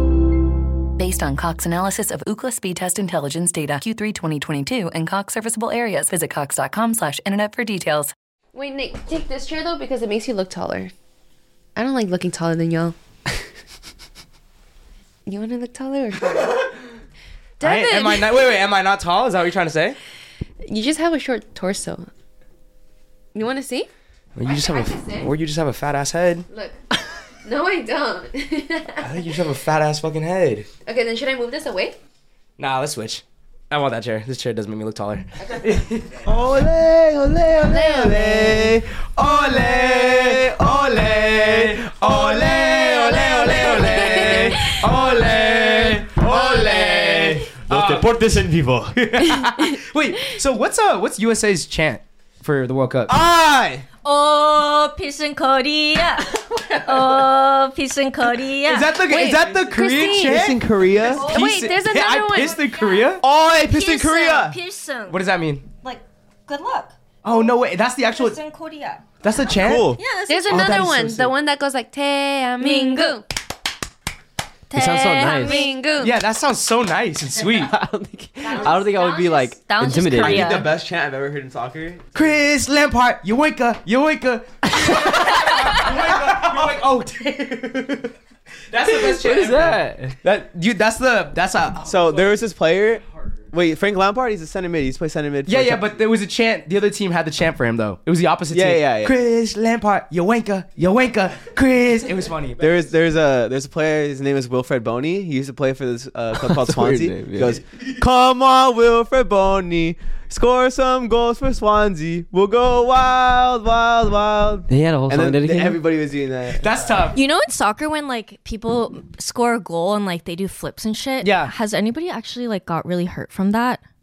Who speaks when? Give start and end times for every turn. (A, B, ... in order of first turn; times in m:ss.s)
0:01.0-0:08.1 A
0:08.5-0:10.9 B
0:11.8-0:13.0 B
0:15.3-0:16.8 B
0:17.6-0:18.5 B
0:17.6-0:20.0 C
0:20.7-0:22.1 B
0:23.4-0:23.9 B
0:24.4-0:26.5 C
0:24.5-0:25.3 B
0:26.5-0:26.8 B
0:27.4-0:29.3 B
0:29.0-0:30.7 C
0:30.9-0:32.0 B
0:32.6-0:36.3 C
0:36.2-0:49.0 D
0:37.6-0:38.6 B
0:37.7-0:48.2 C
0:42.9-0:44.9 B
0:46.3-0:47.3 B
0:48.9-0:53.1 C
0:49.2-0:49.8 B
0:53.1-0:53.8 D
0:54.0-0:59.0 E
0:58.6-1:03.2 C
0:59.0-1:00.5 B
0:59.5-1:01.3 D
1:01.1-1:01.4 E
1:01.3-1:02.6 B
1:02.3-1:05.2 E
1:03.2-1:04.6 D
1:05.1-1:05.7 C
1:05.8-1:06.9 E
1:07.2-1:08.4 C
1:08.2-1:09.0 E
1:09.2-1:10.0 C
1:09.6-1:10.0 D
1:10.0-1:10.8 E
1:10.3-1:13.2 B
1:10.5-1:11.0 C
1:10.5-1:11.3 D
1:12.6-1:13.2 E
1:14.7-1:15.7 E
1:14.7-1:15.7 F
1:15.3-1:16.2 B
1:16.0-1:17.7 C
1:17.6-1:20.6 F
1:18.4-1:20.7 E
1:20.0-1:22.1 D
1:22.1-1:28.1 C
1:25.4-1:25.9 E
1:28.7-1:32.4 C
1:29.0-1:30.2 F
1:31.9-1:35.9 D
1:35.5-1:42.7 C
1:38.5-1:39.2 D
1:42.6-1:56.9 D
1:46.3-1:47.6 F
1:54.7-1:55.8 F
1:56.6-1:57.2 C
1:57.1-2:03.8 E
2:01.2-2:01.5 C